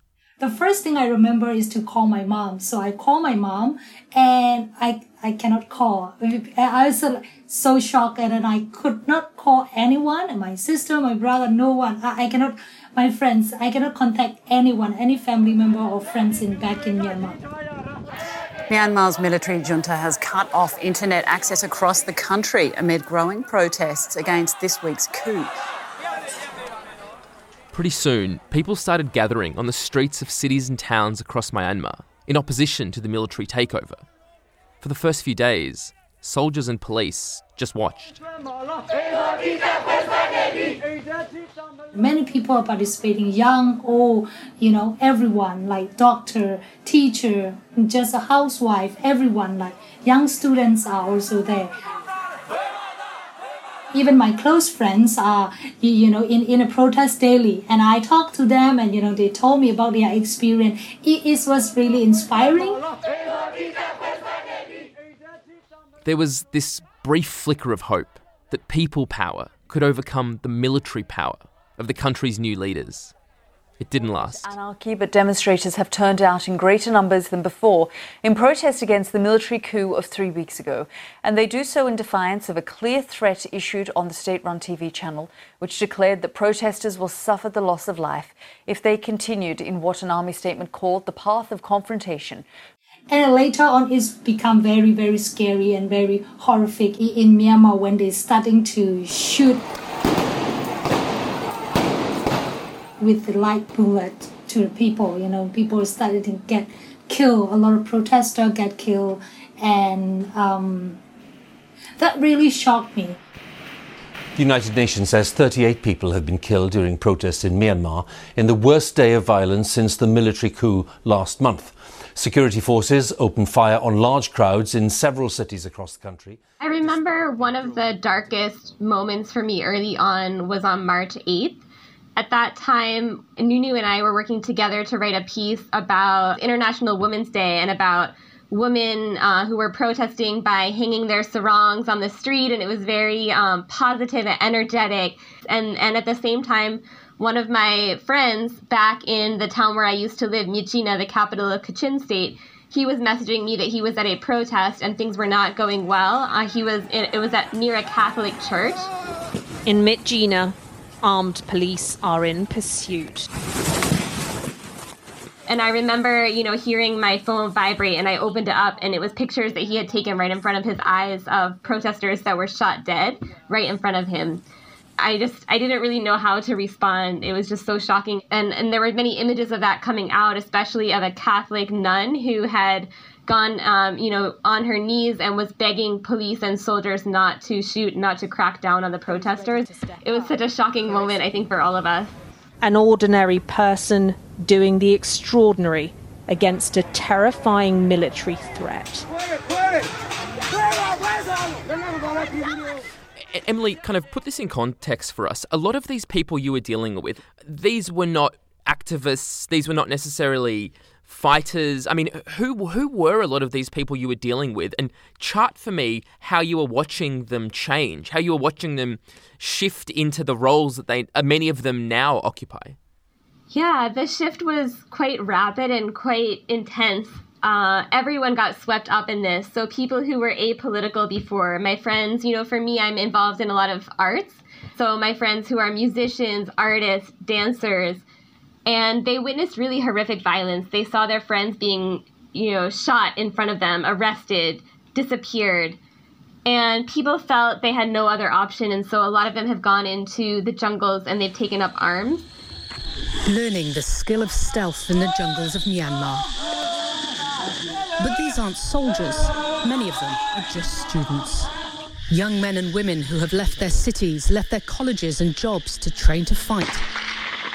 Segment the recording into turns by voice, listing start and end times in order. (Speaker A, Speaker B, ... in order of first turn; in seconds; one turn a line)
Speaker A: 0.4-17.4
Speaker B: 18.7-25.6
Speaker C: 27.7-34.0
Speaker C: 34.8-38.2
Speaker A: 41.9-51.7
Speaker A: 53.9-62.9
Speaker C: 66.0-73.1
Speaker C: 73.8-74.5
Speaker D: 74.2-92.5
Speaker A: 93.1-99.6
Speaker A: 103.0-111.0
Speaker A: 112.0-113.2
Speaker E: 114.3-127.5
Speaker F: 126.6-131.6
Speaker F: 132.2-158.9
Speaker G: 159.7-163.3
Speaker F: 165.5-174.4
Speaker F: 175.0-192.2
Speaker G: 192.6-199.1
Speaker C: 203.2-222.8
Speaker F: 223.5-238.0
Speaker F: 238.7-245.8
Speaker F: 246.5-252.3
Speaker H: 253.2-256.3
Speaker H: 258.0-261.5
Speaker H: 262.1-266.9